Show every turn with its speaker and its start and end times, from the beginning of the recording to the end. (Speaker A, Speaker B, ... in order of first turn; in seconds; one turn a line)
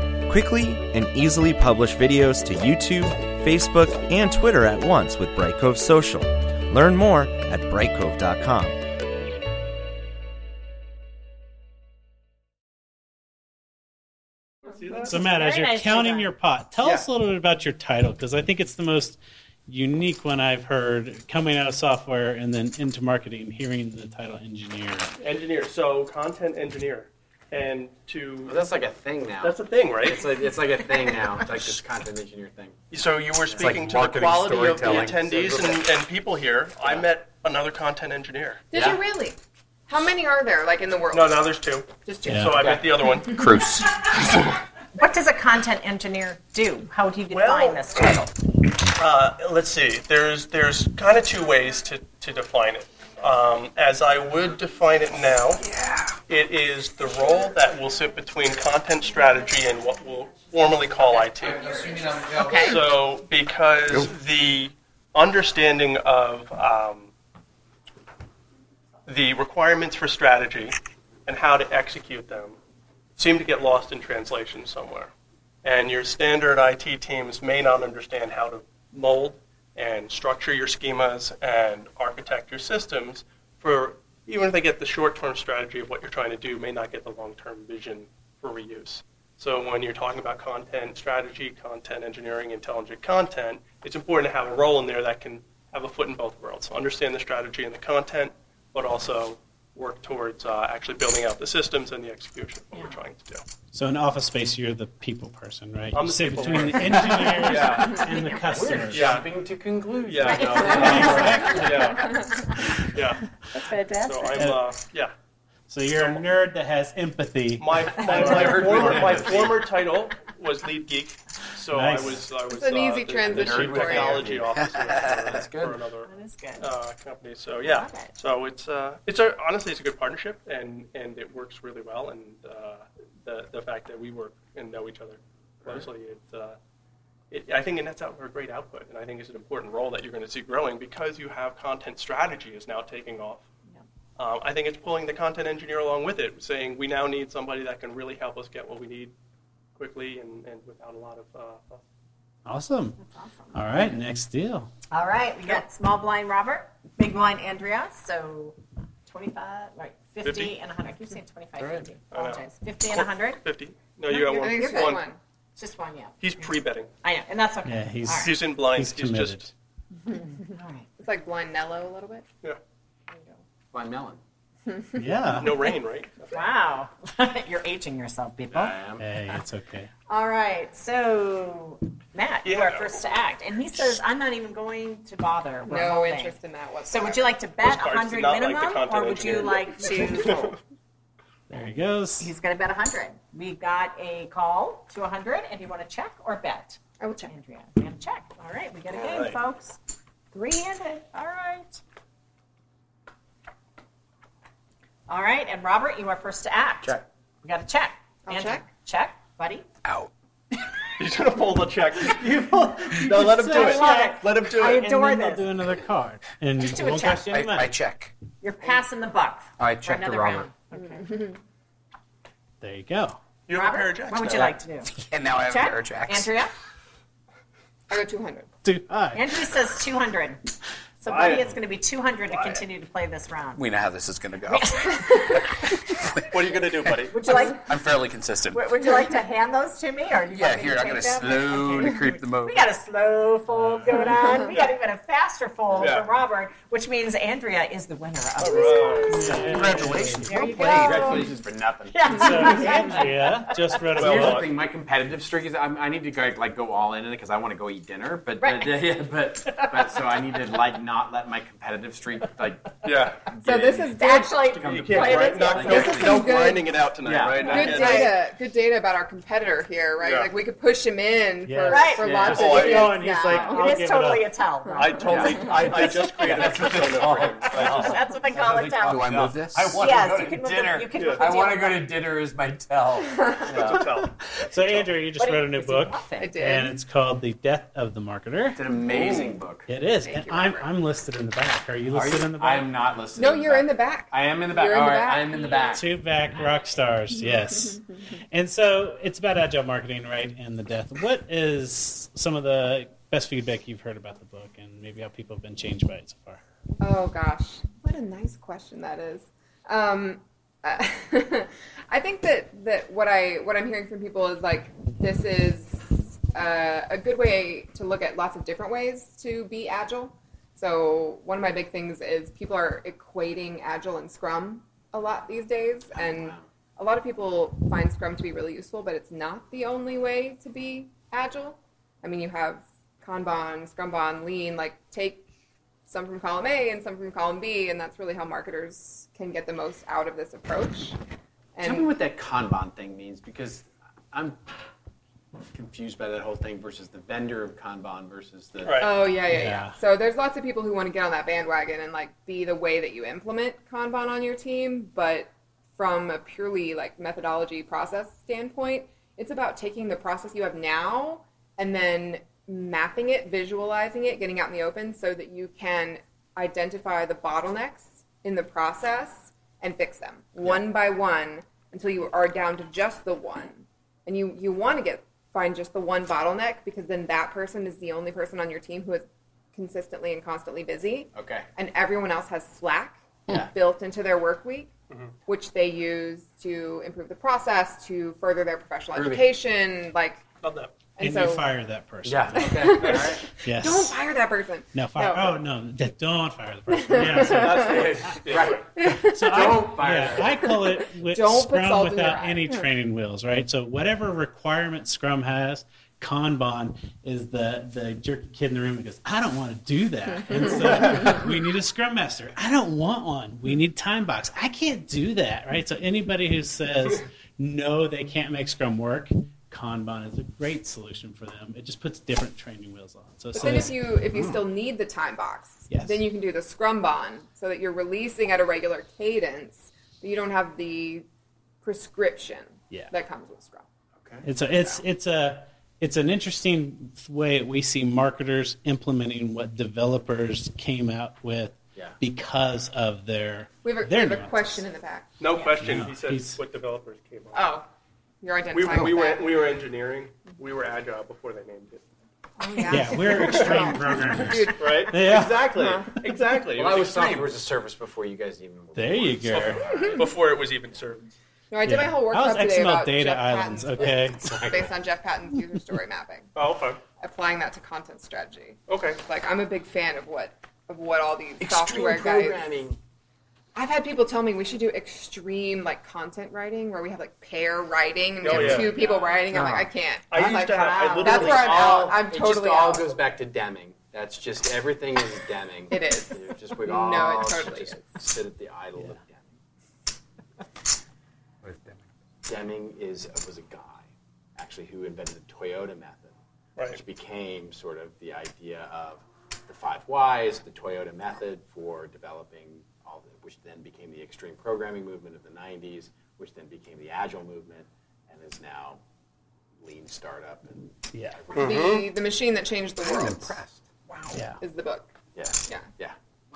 Speaker A: 0.3-8.8
Speaker B: 14.8-15.1
Speaker C: 15.1-16.3
Speaker D: 15.1-25.1
Speaker B: 25.2-28.7
Speaker E: 28.4-32.8
Speaker B: 29.4-30.3
Speaker B: 31.2-31.8
Speaker B: 32.9-38.6
Speaker E: 33.5-35.9
Speaker F: 33.6-35.2
Speaker G: 38.7-39.4
Speaker E: 38.7-39.0
Speaker G: 39.9-42.6
Speaker B: 41.1-43.4
Speaker D: 42.3-42.7
Speaker E: 42.5-42.9
Speaker F: 43.3-44.0
Speaker C: 45.0-48.3
Speaker B: 47.3-48.1
Speaker B: 49.0-55.6
Speaker F: 55.6-56.2
Speaker B: 56.3-67.1
Speaker F: 61.4-62.8
Speaker C: 62.4-62.8
Speaker B: 69.1-70.8
Speaker B: 71.3-72.6
Speaker B: 73.2-75.1
Speaker B: 75.6-103.4
Speaker C: 102.7-103.0
Speaker D: 103.7-109.3
Speaker B: 106.0-108.0
Speaker E: 106.9-111.9
Speaker C: 108.1-108.5
Speaker B: 108.9-109.3
Speaker B: 110.1-112.2
Speaker C: 110.3-112.1
Speaker D: 110.7-112.0
Speaker B: 112.9-113.2
Speaker C: 113.5-114.4
Speaker B: 114.0-115.1
Speaker D: 114.4-114.7
Speaker D: 115.7-119.2
Speaker B: 116.0-116.2
Speaker B: 117.6-136.6
Speaker E: 118.1-119.6
Speaker D: 121.7-122.3
Speaker G: 122.5-124.4
Speaker E: 123.2-125.8
Speaker F: 124.6-125.4
Speaker C: 126.0-126.7
Speaker C: 127.6-128.1
Speaker B: 137.3-143.5
Speaker B: 144.2-149.1
Speaker B: 149.8-151.8
Speaker D: 152.5-153.0
Speaker C: 153.0-153.6
Speaker D: 153.5-154.7
Speaker C: 154.9-163.4
Speaker B: 160.2-160.6
Speaker E: 161.6-161.9
Speaker B: 162.1-165.1
Speaker G: 164.1-165.2
Speaker C: 165.6-168.4
Speaker B: 166.2-166.9
Speaker D: 167.7-169.5
Speaker B: 168.2-169.5
Speaker C: 170.4-170.9
Speaker G: 171.0-172.2
Speaker E: 173.7-174.2
Speaker G: 174.7-175.1
Speaker D: 175.0-175.6
Speaker B: 175.4-176.4
Speaker C: 176.3-178.8
Speaker E: 178.5-179.1
Speaker D: 179.0-179.9
Speaker C: 180.1-190.6
Speaker B: 182.4-183.0
Speaker G: 185.7-187.3
Speaker B: 187.6-190.6
Speaker D: 191.5-192.3
Speaker C: 192.2-199.8
Speaker G: 197.0-197.3
Speaker B: 198.9-199.4
Speaker C: 200.3-201.8
Speaker C: 205.1-209.7
Speaker G: 208.3-208.6
Speaker F: 209.8-210.1
Speaker B: 211.0-214.9
Speaker D: 212.1-217.7
Speaker C: 213.5-215.5
Speaker C: 216.6-217.3
Speaker F: 217.3-218.1
Speaker C: 218.4-221.1
Speaker F: 219.6-220.5
Speaker G: 220.7-221.4
Speaker D: 222.6-223.2
Speaker B: 223.5-224.6
Speaker C: 223.5-226.5
Speaker F: 225.1-226.3
Speaker G: 227.9-228.5
Speaker D: 228.6-229.2
Speaker C: 229.1-230.4
Speaker C: 231.0-233.7
Speaker B: 231.1-231.5
Speaker B: 232.3-232.6
Speaker F: 233.6-235.4
Speaker C: 234.5-235.7
Speaker F: 236.0-236.2
Speaker B: 236.3-237.2
Speaker F: 236.9-238.7
Speaker C: 237.1-237.7
Speaker C: 238.5-251.3
Speaker F: 240.3-242.7
Speaker E: 241.2-242.2
Speaker D: 243.5-244.1
Speaker B: 245.8-246.1
Speaker B: 248.4-249.4
Speaker G: 248.4-249.3
Speaker D: 249.1-250.4
Speaker F: 249.4-251.2
Speaker E: 250.5-252.5
Speaker C: 251.9-253.8
Speaker D: 252.1-254.5
Speaker G: 252.5-252.9
Speaker E: 253.9-268.1
Speaker B: 254.0-254.5
Speaker C: 258.4-258.8
Speaker C: 259.6-260.0
Speaker B: 262.8-263.2
Speaker G: 263.4-266.7
Speaker C: 263.9-266.2
Speaker B: 264.6-268.2
Speaker C: 267.4-268.1
Speaker G: 267.4-273.7
Speaker B: 270.0-270.3
Speaker D: 271.4-274.3
Speaker C: 271.7-272.1
Speaker E: 272.0-273.5
Speaker B: 272.3-273.0
Speaker C: 272.9-276.5
Speaker G: 274.7-275.5
Speaker B: 274.8-278.0
Speaker E: 275.1-284.0
Speaker C: 277.4-279.1
Speaker F: 278.9-279.8
Speaker C: 279.8-281.9
Speaker B: 280.9-281.3
Speaker B: 283.5-284.9
Speaker D: 284.4-288.7
Speaker C: 285.2-286.4
Speaker G: 286.2-286.8
Speaker E: 288.6-289.7
Speaker B: 288.9-289.3
Speaker D: 289.7-292.7
Speaker G: 290.0-290.7
Speaker E: 291.9-295.9
Speaker G: 293.2-295.5
Speaker D: 295.8-306.4
Speaker G: 306.8-335.3
Speaker E: 325.9-326.4
Speaker G: 335.9-341.0
Speaker G: 341.6-341.9
Speaker E: 341.6-344.4
Speaker E: 345.5-349.1
Speaker B: 348.6-348.9
Speaker G: 348.8-384.7
Speaker D: 349.3-349.8
Speaker E: 381.1-381.5
Speaker G: 385.3-390.2
Speaker E: 388.9-389.3
Speaker B: 390.4-390.7
Speaker G: 391.0-391.5
Speaker D: 391.0-394.0
Speaker E: 392.0-393.3
Speaker G: 392.4-395.4
Speaker D: 394.8-397.8
Speaker G: 396.7-397.9
Speaker B: 397.2-398.6
Speaker E: 397.3-400.5
Speaker G: 398.5-399.8
Speaker D: 398.9-424.4
Speaker G: 400.5-402.7
Speaker G: 410.4-411.1
Speaker G: 423.3-431.1
Speaker D: 425.7-426.1
Speaker G: 431.6-433.6
Speaker E: 434.0-434.8
Speaker D: 434.2-444.6
Speaker G: 443.6-445.1
Speaker B: 445.2-447.5
Speaker D: 445.6-446.4
Speaker G: 447.3-447.7
Speaker G: 448.2-449.4
Speaker B: 448.5-451.8
Speaker G: 452.4-456.0
Speaker D: 452.6-456.0
Speaker B: 453.2-453.5
Speaker B: 454.6-457.4
Speaker E: 456.5-460.0
Speaker D: 458.8-459.7
Speaker B: 459.3-461.1
Speaker G: 459.6-460.1
Speaker G: 461.5-466.3
Speaker D: 461.6-464.4
Speaker E: 463.8-464.7
Speaker B: 466.4-466.8
Speaker G: 467.0-472.5
Speaker B: 468.7-469.0
Speaker E: 471.4-472.8
Speaker G: 473.6-483.0
Speaker B: 478.2-478.9
Speaker E: 478.3-479.2
Speaker B: 480.1-482.0
Speaker C: 480.6-481.1
Speaker E: 481.0-489.3
Speaker G: 485.7-488.0
Speaker F: 491.4-491.8
Speaker E: 492.3-496.2
Speaker E: 496.7-508.8
Speaker E: 509.6-511.9
Speaker D: 510.9-511.2
Speaker B: 511.3-511.9
Speaker G: 511.3-513.4
Speaker F: 512.8-514.1
Speaker E: 513.1-513.4
Speaker D: 514.1-514.4
Speaker G: 514.4-514.9
Speaker E: 515.2-516.0